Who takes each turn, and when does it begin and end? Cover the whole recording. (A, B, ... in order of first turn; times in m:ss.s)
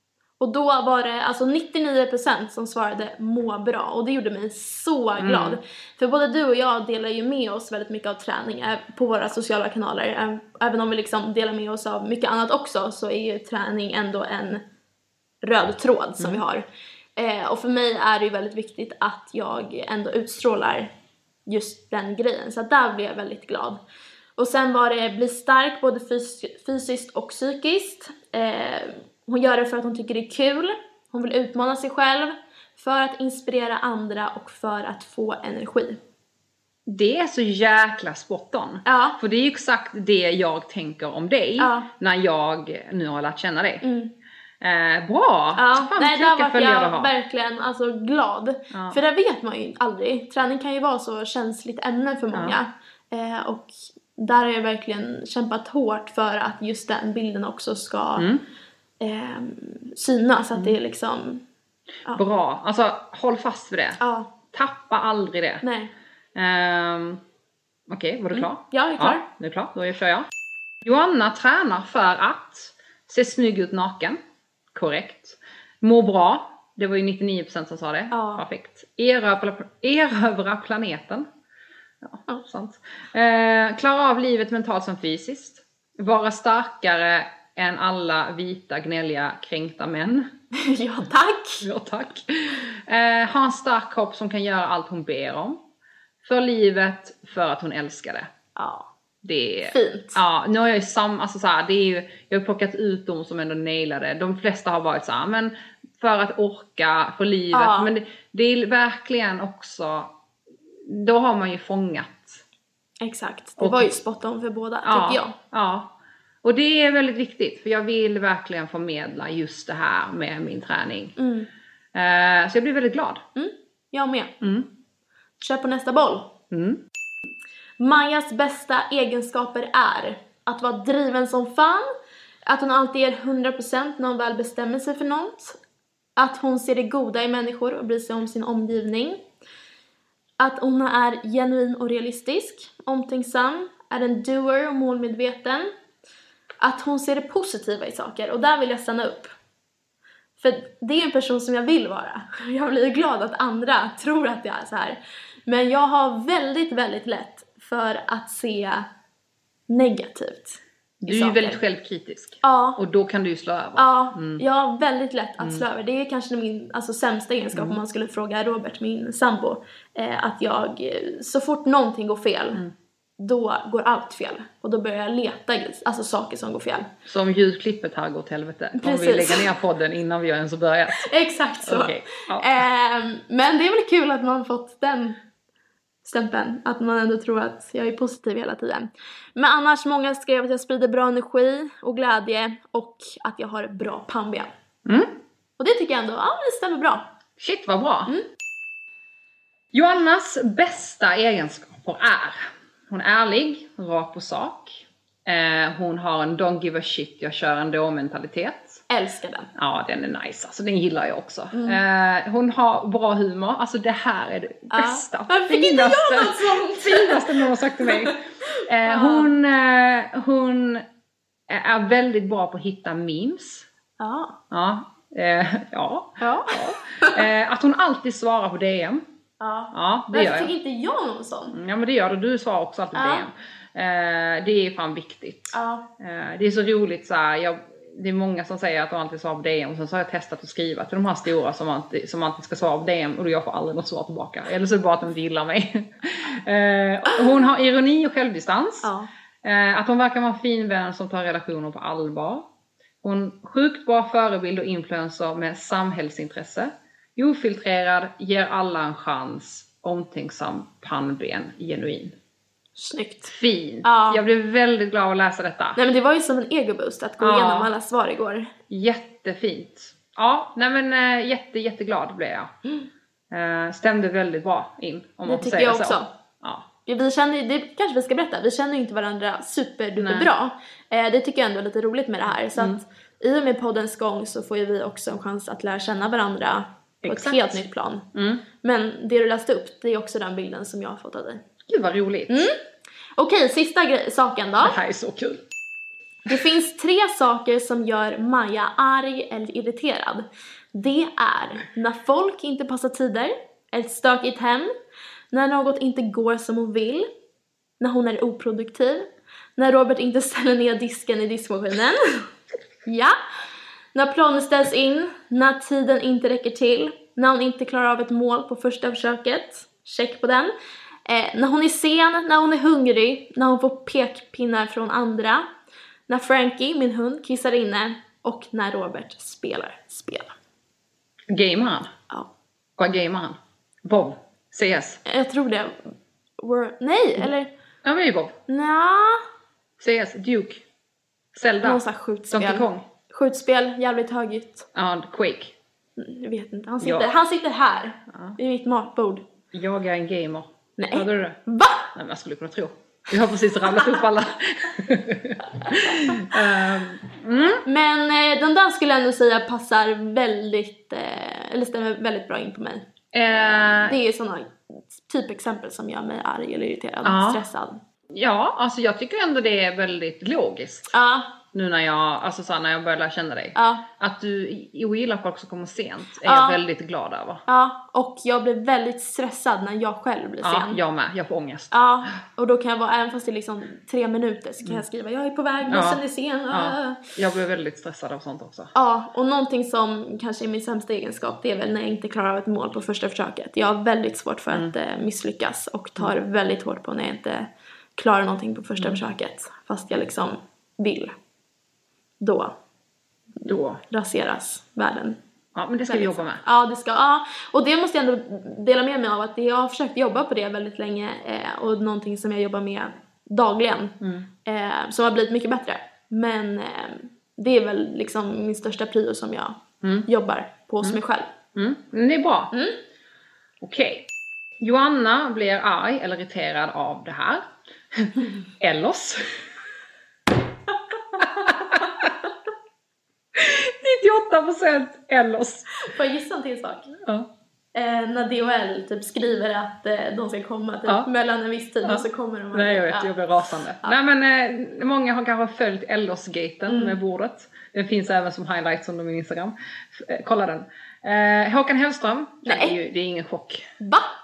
0:00.4-0:14.6 A
0:05.2-0:05.6 B
0:15.4-0:16.6 A
0:17.2-0:20.9 A
0:21.5-0:23.8 A
0:24.4-0:36.0 A
0:36.9-0:43.8 B
0:38.8-0:39.2 A
0:41.6-0:41.9 A
0:43.8-0:44.1 A
0:44.6-0:47.1 B
0:45.6-0:58.3 A
0:48.7-0:49.0 B
0:52.3-0:52.6 B
0:58.2-0:58.4 B
0:59.0-1:01.4 A
1:02.1-1:04.0 B
1:04.0-1:04.3 A
1:04.5-1:05.6 B
1:05.6-1:05.9 A
1:06.4-1:07.2 B
1:07.9-1:10.3 B
1:08.3-1:09.3 A
1:10.8-1:14.2 B
1:14.7-1:21.3 B
1:18.1-1:18.4 A
1:22.0-1:30.3 B
1:30.5-1:31.7 A
1:31.6-1:35.6 B
1:36.2-1:38.3 B
1:38.6-1:38.9 A
1:39.2-1:50.1 B
1:39.7-1:40.2 A
1:47.5-1:47.9 A
1:50.8-1:52.4 B
1:53.0-1:55.4 A
1:53.6-1:53.9 B
1:54.8-2:01.2 B
2:01.2-2:01.5 A
2:01.9-2:03.2 B
2:03.4-2:04.4 A
2:04.4-2:04.7 B
2:05.4-2:06.3 A
2:06.5-2:06.8 B
2:07.8-2:11.9 A
2:12.5-2:15.6 A
2:16.2-2:19.2 A
2:20.4-2:25.7 A
2:26.6-2:29.3 A
2:30.4-2:38.9 A
2:39.7-2:41.6 A
2:41.0-2:44.4 B
2:42.4-2:42.8 A
2:43.8-2:52.6 A
2:47.5-2:47.8 B
2:53.2-2:56.9 A
2:57.1-3:01.1 B
2:58.8-2:59.5 A
3:00.9-3:05.2 A
3:01.6-3:02.6 B
3:06.0-3:14.5 A
3:14.8-3:15.2 B
3:15.6-3:17.1 A
3:17.4-3:18.1 B
3:19.7-3:28.8 B
3:28.9-3:29.5 A
3:29.6-3:40.8 B
3:31.5-3:31.8 A
3:34.7-3:39.3 A
3:41.5-3:43.7 B
3:44.0-3:44.4 A
3:44.5-3:49.0 B
3:46.2-3:47.2 A
3:49.4-3:51.6 A
3:49.7-3:50.5 B
3:51.5-4:08.9 B
3:52.9-3:53.3 A
3:55.5-3:55.9 A
4:08.8-4:09.1 A
4:09.4-4:12.5 B
4:13.0-4:22.2 B
4:22.8-4:23.3 A
4:23.3-4:25.8 B
4:23.8-4:24.2 A
4:25.8-4:28.5 A
4:27.2-4:27.7 B
4:28.7-4:32.5 B
4:33.3-4:36.7 B
4:35.3-4:36.1 A
4:36.8-4:48.1 A
4:40.0-4:40.3 B
4:42.6-4:42.8 B
4:47.0-4:47.6 B
4:48.1-4:48.4 B
4:48.6-4:51.4 A
4:51.7-4:52.5 B
4:52.3-4:52.6 A
4:53.2-4:54.8 A
4:54.6-4:55.4 B
4:56.3-5:04.7 A
5:05.3-5:07.1 A
5:07.8-5:12.3 A
5:12.8-5:13.2 A
5:14.0-5:20.5 A
5:21.1-5:25.5 A
5:26.1-5:30.4 A
5:31.3-5:31.9 B
5:32.8-5:35.0 B
5:35.0-5:37.5 A
5:37.8-5:38.4 B
5:38.5-5:39.2 A
5:39.8-5:40.6 B
5:41.3-5:42.9 B
5:41.6-5:44.7 A
5:44.8-5:45.6 B
5:46.0-5:49.2 A
5:46.8-5:47.1 B
5:49.5-5:51.4 B
5:50.8-5:51.9 A
5:51.9-5:57.6 B
5:55.7-5:56.1 A
5:57.6-6:07.8 A
6:03.1-6:04.0 B
6:07.0-6:07.4 B
6:08.1-6:10.9 B
6:10.9-6:11.4 A
6:11.5-6:17.4 B
6:13.6-6:13.9 A
6:16.2-6:16.6 A
6:17.5-6:20.8 A
6:20.4-6:21.8 B
6:21.7-6:27.0 A
6:25.7-6:28.7 B
6:28.8-6:41.2 A
6:42.2-6:42.6 A
6:43.4-6:43.8 B
6:43.9-6:45.2 A
6:45.6-6:46.4 B
6:45.9-7:01.3 A
6:54.0-6:54.3 B
6:59.8-7:00.1 B
7:01.6-7:02.5 B
7:02.5-7:02.8 A
7:03.6-7:09.4 B
7:11.1-7:11.7 A
7:11.2-7:12.3 B
7:13.3-7:15.8 B
7:15.8-7:16.9 A
7:17.0-7:17.3 B
7:17.8-7:23.1 A
7:21.8-7:33.7 B
7:26.7-7:27.0 A
7:32.5-7:32.8 A
7:33.8-7:34.1 A